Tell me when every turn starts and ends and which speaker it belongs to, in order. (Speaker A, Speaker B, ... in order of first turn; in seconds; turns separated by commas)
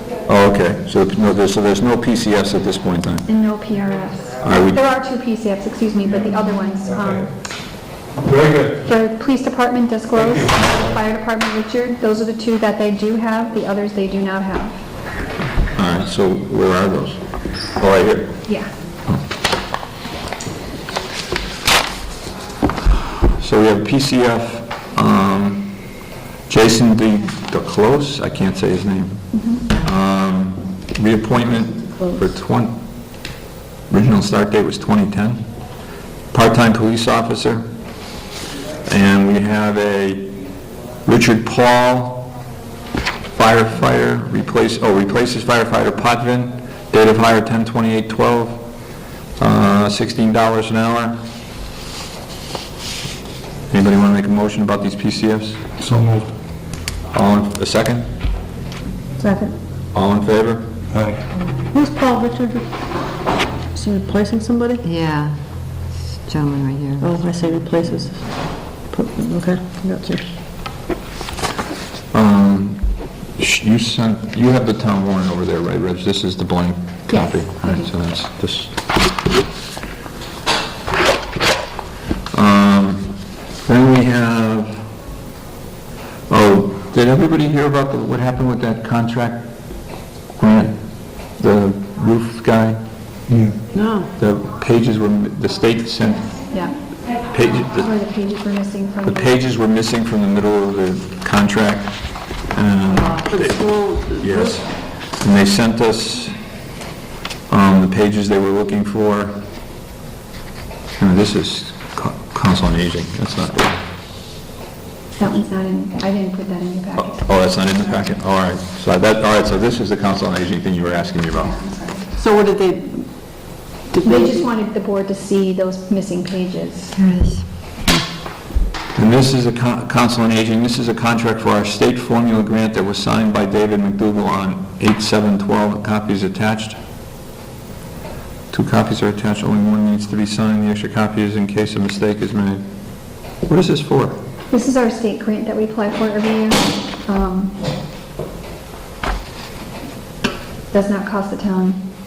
Speaker A: 0.3-3.2, Speaker B: 3.3-7.3, Speaker A: 4.4-4.8, Speaker C: 8.2-8.8, Speaker B: 8.8-14.8, Speaker A: 15.8-17.2, Speaker A: 17.8-18.4, Speaker A: 23.4-25.8, Speaker A: 26.5-32.7, Speaker B: 29.3-29.6, Speaker A: 33.9-35.4, Speaker A: 36.3-37.6, Speaker A: 38.9-40.4, Speaker A: 41.0-42.3, Speaker A: 43.3-48.6, Speaker A: 49.4-51.2, Speaker A: 53.7-55.6, Speaker C: 55.8-56.3, Speaker A: 57.1-58.1, Speaker B: 59.2-59.5, Speaker A: 59.9-60.7, Speaker C: 60.9-61.2, Speaker D: 61.7-62.6, Speaker D: 63.7-64.8, Speaker E: 64.8-67.2, Speaker D: 67.0-70.3, Speaker A: 72.1-78.8, Speaker B: 77.1-77.9, Speaker A: 82.3-83.1, Speaker A: 83.7-84.8, Speaker A: 86.3-89.5, Speaker A: 90.3-90.7, Speaker A: 91.3-92.8, Speaker C: 93.3-93.5, Speaker D: 93.7-94.1, Speaker A: 94.2-96.4, Speaker A: 97.3-97.9, Speaker B: 97.6-99.4, Speaker A: 99.0-106.4, Speaker D: 103.1-104.6, Speaker A: 107.5-109.4, Speaker A: 111.0-113.8, Speaker B: 115.2-118.0, Speaker A: 117.0-121.5, Speaker B: 121.4-122.1, Speaker D: 122.1-124.5, Speaker B: 124.0-127.0, Speaker E: 126.9-127.5, Speaker A: 128.9-136.8, Speaker A: 138.5-142.6, Speaker A: 143.2-144.2, Speaker B: 144.5-147.6, Speaker B: 150.7-151.8